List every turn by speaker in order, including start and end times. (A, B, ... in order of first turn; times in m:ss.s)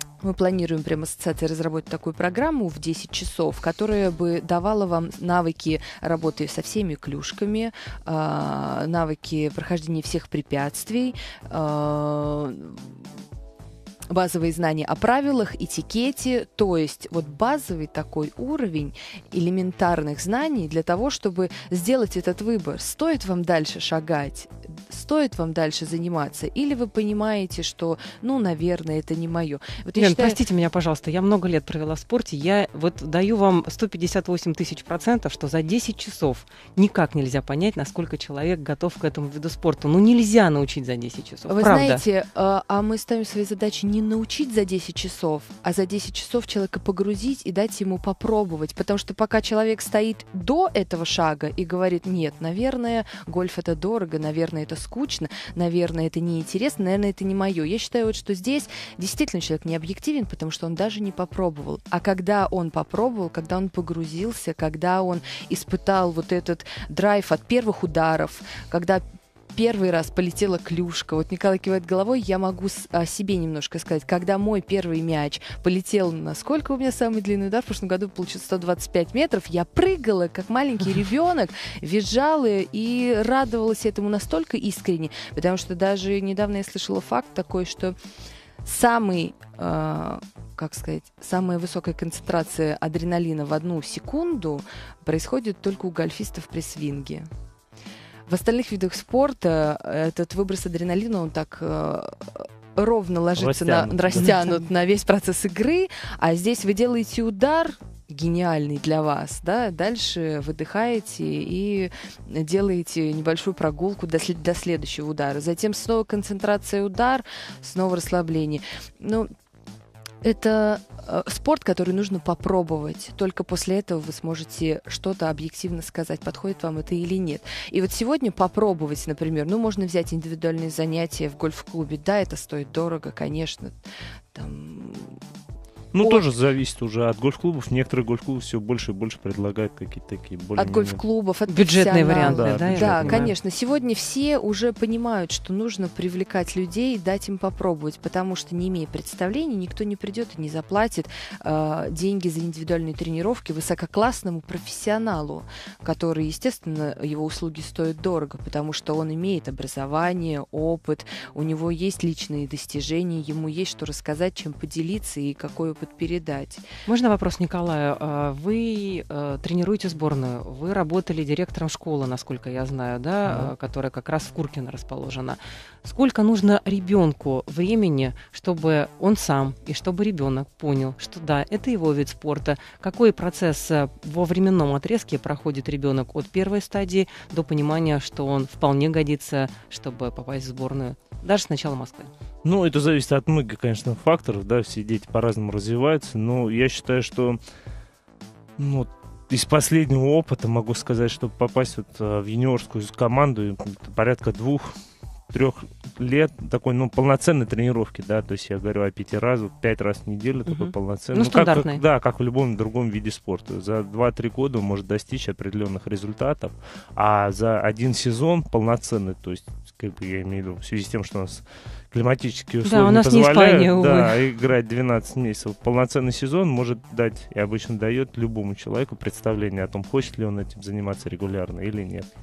0:00.2-0:12.9 A
0:14.1-0:30.4 A
0:30.0-0:42.0 B
0:41.5-1:09.0 A
1:09.5-1:28.0 A
1:28.6-1:37.3 A
1:38.3-1:59.3 A
1:43.4-1:44.4 C
2:00.2-2:13.8 A
2:14.3-2:15.2 A
2:15.9-2:21.0 C
2:16.0-2:16.3 A
2:20.6-2:46.6 A
2:21.5-2:23.3 B
2:22.2-2:23.3 C
2:46.9-3:12.1 B
2:53.2-2:53.5 C
3:12.4-3:17.4 C
3:18.6-3:24.8 C
3:25.3-3:52.1 C
3:30.5-3:31.8 B
3:42.6-3:44.2 B